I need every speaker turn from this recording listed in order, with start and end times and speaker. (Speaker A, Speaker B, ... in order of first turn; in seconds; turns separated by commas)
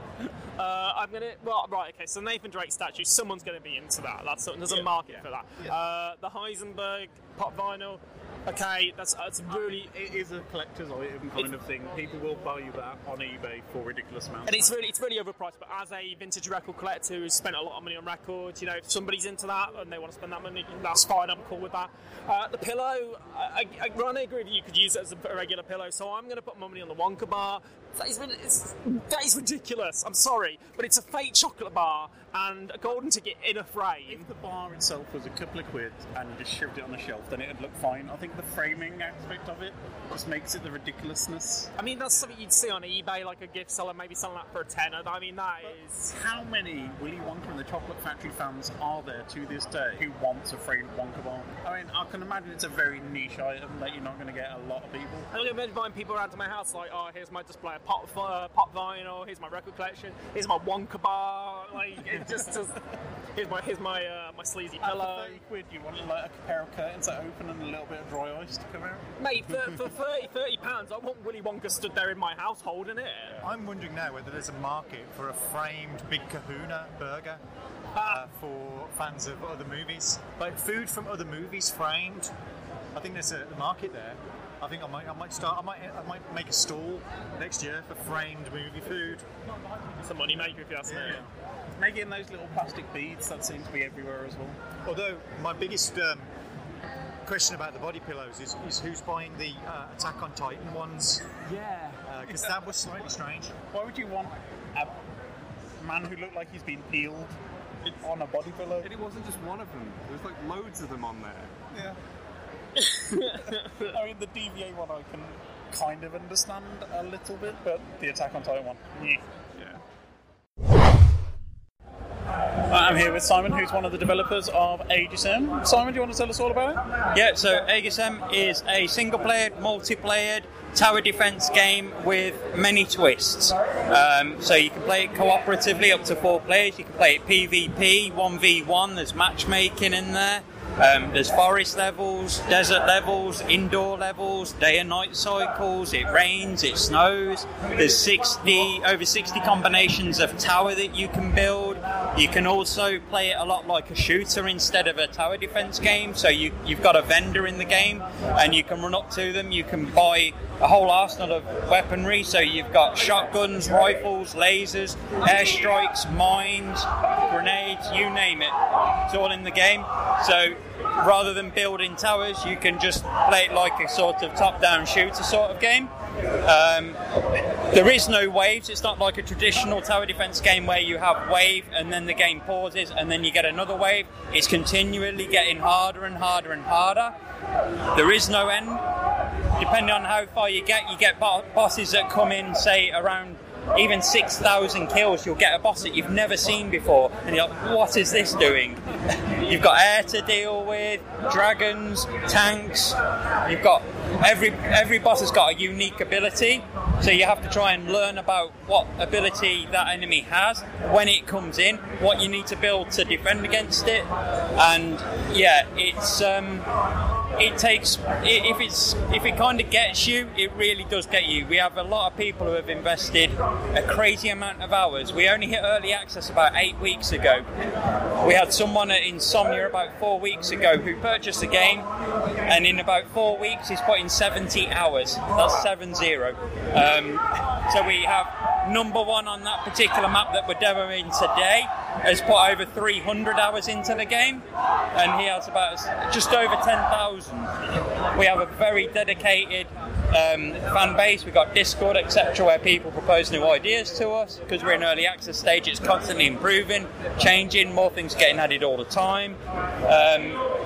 Speaker A: 0.6-9.9, Speaker B: 9.5-14.7, Speaker A: 14.4-34.3, Speaker B: 34.0-42.3, Speaker A: 41.8-46.1, Speaker B: 45.6-55.3, Speaker A: 55.3-62.8, Speaker A: 63.3-65.4, Speaker B: 64.8-69.0, Speaker A: 69.2-73.4, Speaker C: 73.4-77.4, Speaker A: 77.9-78.2, Speaker C: 78.0-82.3, Speaker C: 82.9-89.2, Speaker A: 90.0-91.2, Speaker B: 90.9-91.2, Speaker B: 91.8-94.6, Speaker C: 94.8-96.3, Speaker C: 97.2-101.3, Speaker C: 102.0-103.5, Speaker B: 103.7-105.0, Speaker B: 105.8-107.3, Speaker B: 108.0-108.9, Speaker D: 108.8-111.5, Speaker B: 113.8-119.2, Speaker B: 122.7-126.8, Speaker E: 127.1-168.5, Speaker E: 169.1-177.0, Speaker E: 177.7-187.1, Speaker E: 187.9-188.8, Speaker E: 189.6-198.8, Speaker E: 199.4-216.7, Speaker E: 217.4-227.4, Speaker E: 228.2-231.9, Speaker E: 232.4-244.4, Speaker E: 244.9-247.5, Speaker E: 248.1-260.5